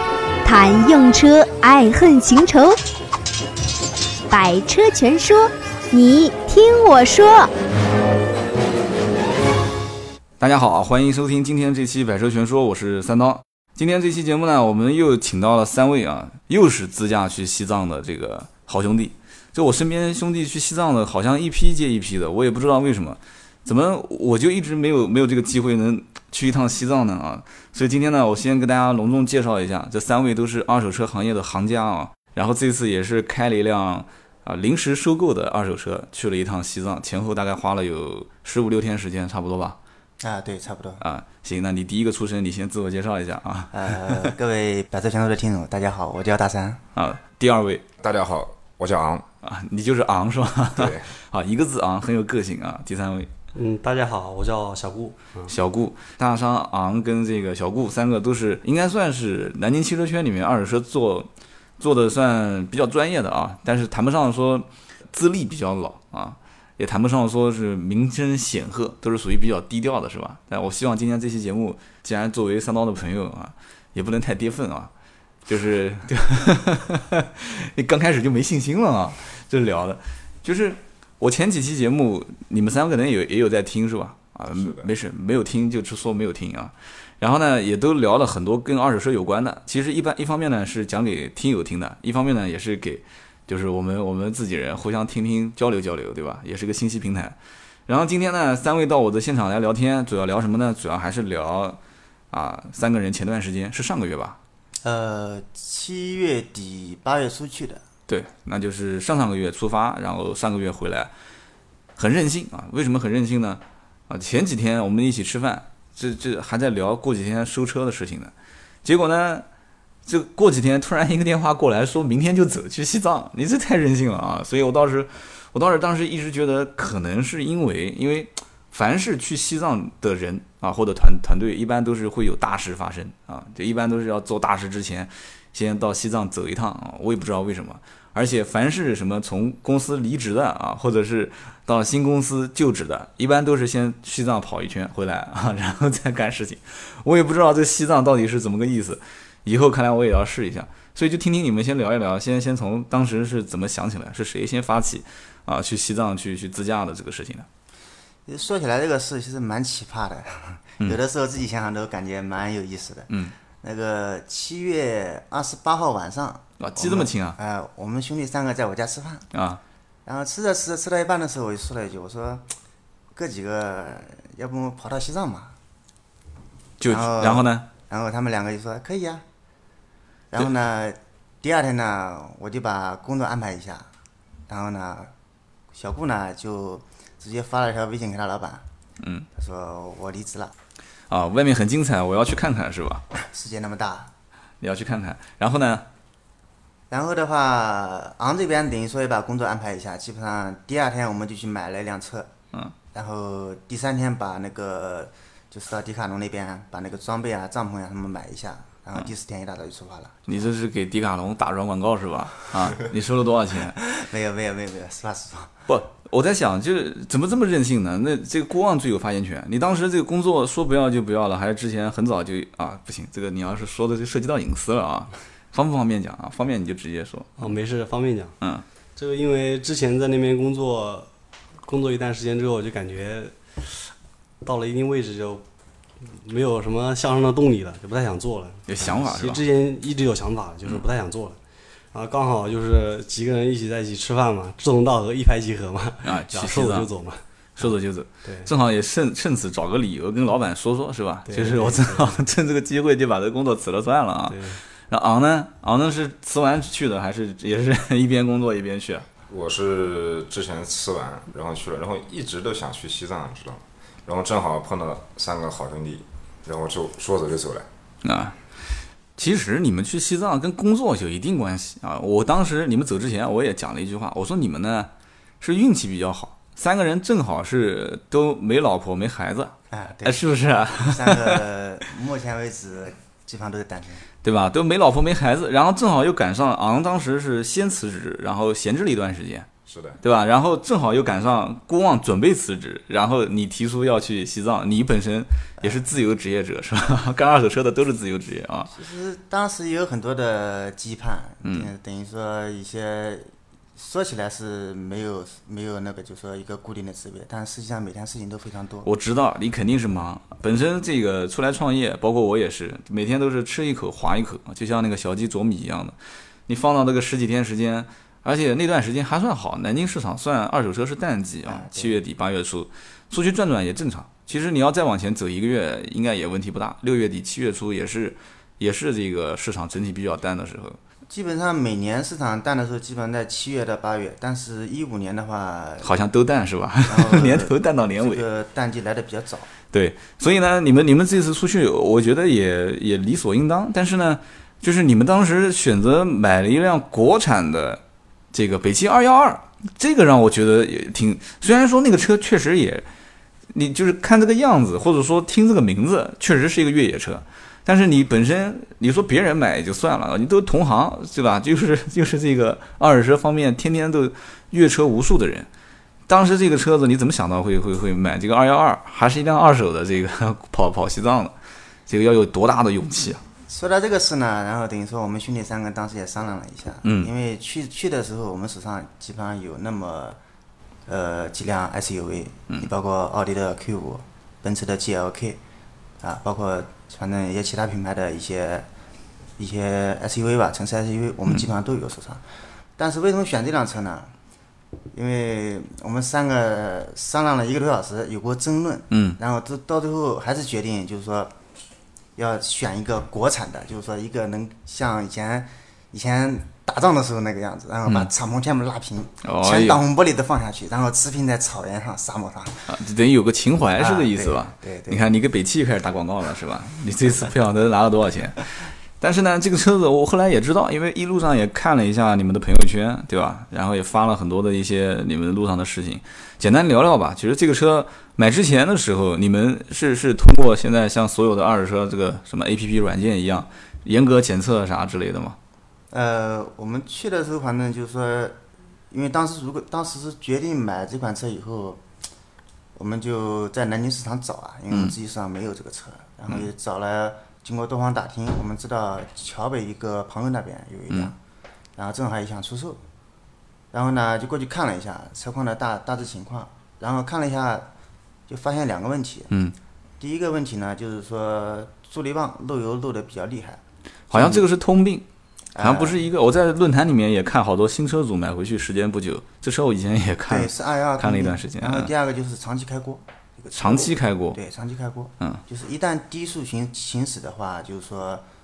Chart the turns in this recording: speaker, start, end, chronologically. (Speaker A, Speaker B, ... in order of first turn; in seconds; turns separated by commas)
Speaker A: 0.4-2.8, Speaker A: 4.3-7.5, Speaker B: 10.4-39.8, Speaker C: 40.2-41.0, Speaker B: 41.0-44.3, Speaker C: 43.7-46.8, Speaker B: 47.0-47.9, Speaker D: 48.0-49.3, Speaker B: 49.4-53.3, Speaker D: 50.7-51.1, Speaker E: 53.5-55.5, Speaker B: 55.5-61.3, Speaker B: 61.8-74.9, Speaker B: 75.5-97.4, Speaker D: 84.5-84.9, Speaker B: 97.9-101.8, Speaker B: 102.3-104.4, Speaker C: 104.8-107.8, Speaker B: 108.1-111.1, Speaker B: 112.0-118.3, Speaker B: 118.8-119.5, Speaker B: 120.1-157.5, Speaker C: 158.3-169.3, Speaker B: 163.1-163.3, Speaker B: 166.6-167.4, Speaker B: 169.3-169.6, Speaker C: 170.1-172.4, Speaker C: 173.2-175.6, Speaker B: 176.8-177.7, Speaker C: 176.9-179.2, Speaker C: 180.3-183.9, Speaker C: 184.5-185.1, Speaker C: 185.7-188.7, Speaker B: 189.0-189.3, Speaker C: 189.3-190.5, Speaker B: 191.1-193.0, Speaker C: 193.1-194.1, Speaker B: 194.6-195.9, Speaker C: 196.9-202.3, Speaker C: 202.9-210.3, Speaker B: 210.3-213.8, Speaker C: 213.8-215.7, Speaker B: 215.7-227.5, Speaker E: 227.4-228.3, Speaker E: 229.0-231.1, Speaker E: 231.6-233.3, Speaker E: 234.4-235.4, Speaker E: 236.0-241.4, Speaker B: 238.7-239.4, Speaker E: 241.9-247.7, Speaker B: 246.0-246.9, Speaker B: 247.6-259.1, Speaker E: 248.2-248.5, Speaker E: 251.3-252.2, Speaker E: 254.3-254.6, Speaker D: 259.3-267.7, Speaker B: 268.0-268.4, Speaker B: 269.2-281.4, Speaker C: 279.7-284.1, Speaker B: 284.2-289.5, Speaker D: 289.7-290.0, Speaker B: 290.0-298.7, Speaker C: 298.7-308.9, Speaker B: 301.4-301.7, Speaker B: 308.9-316.0, Speaker B: 316.5-330.8, Speaker C: 321.4-322.0, Speaker C: 331.1-335.9, Speaker B: 335.8-338.2, Speaker C: 336.9-339.5, Speaker B: 339.7-347.8, Speaker B: 348.3-352.9, Speaker B: 353.5-365.5, Speaker B: 366.1-371.3, Speaker B: 371.9-373.2, Speaker C: 373.5-380.2, Speaker B: 376.8-377.1, Speaker C: 380.9-385.4, Speaker C: 386.0-388.7, Speaker C: 389.4-392.2, Speaker C: 392.8-394.1, Speaker C: 394.9-401.3, Speaker B: 398.9-399.2, Speaker C: 402.2-412.7, Speaker B: 409.2-409.8, Speaker B: 412.7-435.4, Speaker C: 413.8-415.1, Speaker C: 435.9-438.4, Speaker C: 438.9-441.8, Speaker C: 442.8-451.2, Speaker C: 451.8-452.8, Speaker C: 453.7-457.7, Speaker C: 458.3-459.3, Speaker B: 459.3-459.6, Speaker C: 460.0-463.6, Speaker B: 464.1-465.1, Speaker C: 464.1-464.4, Speaker C: 465.6-466.0, Speaker B: 465.6-471.9, Speaker C: 470.3-478.2, Speaker B: 473.6-474.4